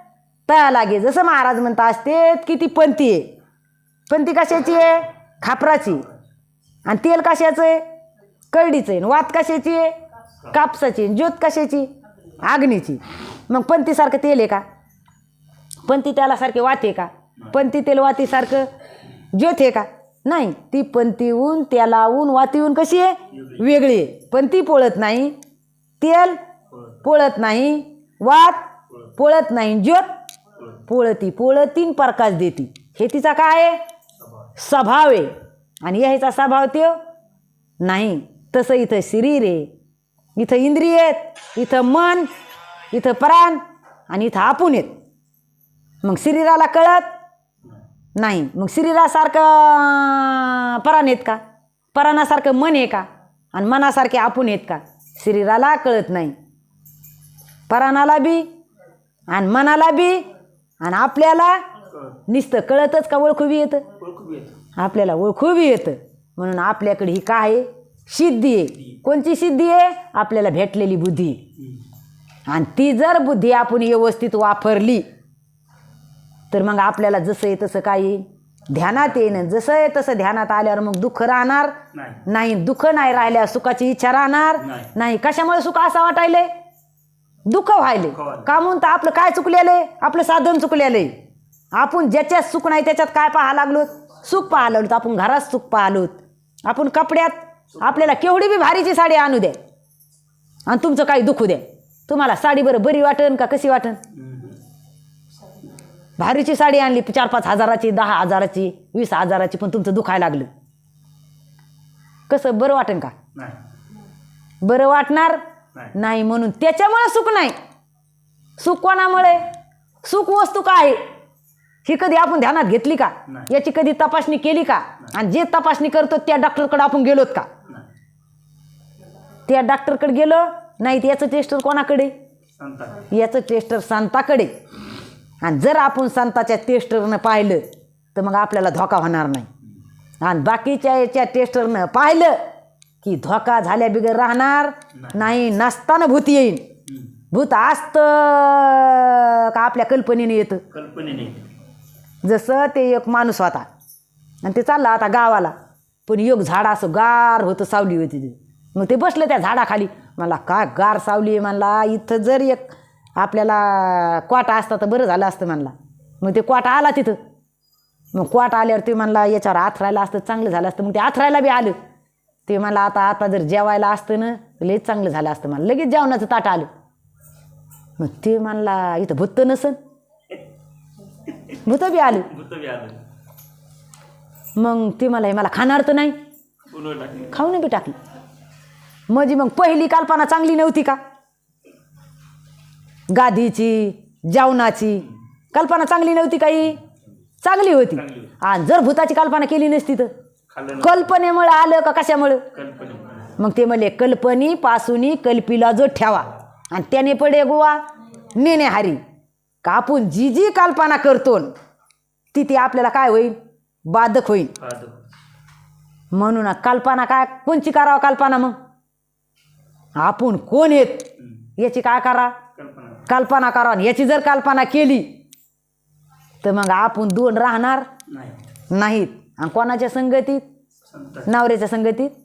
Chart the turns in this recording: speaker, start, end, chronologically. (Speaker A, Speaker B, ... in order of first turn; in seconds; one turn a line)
Speaker A: 0.5-3.3
Speaker A: 4.1-6.1
Speaker A: 6.9-7.8
Speaker A: 8.5-9.9
Speaker A: 10.5-11.9
Speaker A: 12.4-14.6
Speaker A: 15.9-18.7
Speaker A: 19.3-25.4
Speaker B: 23.3-23.7
Speaker A: 26.0-26.4
Speaker B: 26.7-27.0
Speaker A: 27.0-30.1
Speaker A: 30.9-33.8
Speaker B: 34.2-34.5
Speaker A: 34.6-37.0
Speaker A: 37.8-39.7
Speaker A: 40.4-42.3
Speaker A: 42.9-44.9
Speaker A: 46.0-47.1
Speaker A: 48.2-51.4
Speaker A: 51.9-56.4
Speaker A: 57.7-58.5
Speaker A: 59.3-60.3
Speaker A: 60.8-61.6
Speaker B: 61.9-62.2
Speaker A: 62.3-63.9
Speaker B: 64.0-64.6
Speaker A: 64.8-71.4
Speaker A: 72.5-75.0
Speaker A: 76.5-81.8
Speaker B: 81.9-82.2
Speaker A: 82.3-86.5
Speaker B: 84.6-84.9
Speaker A: 87.5-91.2
Speaker B: 88.2-88.5
Speaker A: 91.7-99.6
Speaker B: 97.8-98.0
Speaker A: 100.7-104.0
Speaker B: 104.1-104.6
Speaker A: 106.2-110.5
Speaker A: 112.3-113.1
Speaker B: 113.3-113.6
Speaker A: 114.6-115.4
Speaker A: 116.0-117.6
Speaker A: 118.6-119.5
Speaker A: 120.0-121.0
Speaker A: 121.8-127.5
Speaker A: 129.5-132.1
Speaker B: 132.6-133.1
Speaker A: 133.1-134.5
Speaker A: 135.4-137.6
Speaker A: 138.2-139.5
Speaker A: 140.2-142.4
Speaker A: 143.0-146.6
Speaker B: 145.0-145.3
Speaker A: 147.3-150.6
Speaker B: 150.7-151.5
Speaker A: 152.2-153.7
Speaker A: 154.4-155.5
Speaker A: 156.1-167.2
Speaker A: 168.1-171.8
Speaker A: 172.5-176.7
Speaker A: 178.0-179.8
Speaker A: 181.6-182.3
Speaker B: 182.3-183.0
Speaker A: 184.6-186.2
Speaker B: 186.7-187.3
Speaker A: 187.3-188.0
Speaker A: 189.1-191.0
Speaker A: 193.1-196.8
Speaker A: 197.4-200.1
Speaker B: 198.0-198.3
Speaker B: 200.5-201.1
Speaker A: 200.8-202.4
Speaker B: 202.5-203.4
Speaker A: 203.4-207.8
Speaker A: 208.3-209.0
Speaker A: 209.6-211.5
Speaker A: 212.3-213.4
Speaker A: 213.9-214.5
Speaker B: 214.6-215.0
Speaker A: 216.1-218.6
Speaker A: 220.0-222.4
Speaker B: 222.6-223.1
Speaker A: 223.1-225.1
Speaker A: 226.4-227.9
Speaker B: 228.1-228.4
Speaker A: 228.7-230.4
Speaker B: 230.9-231.3
Speaker A: 231.3-232.1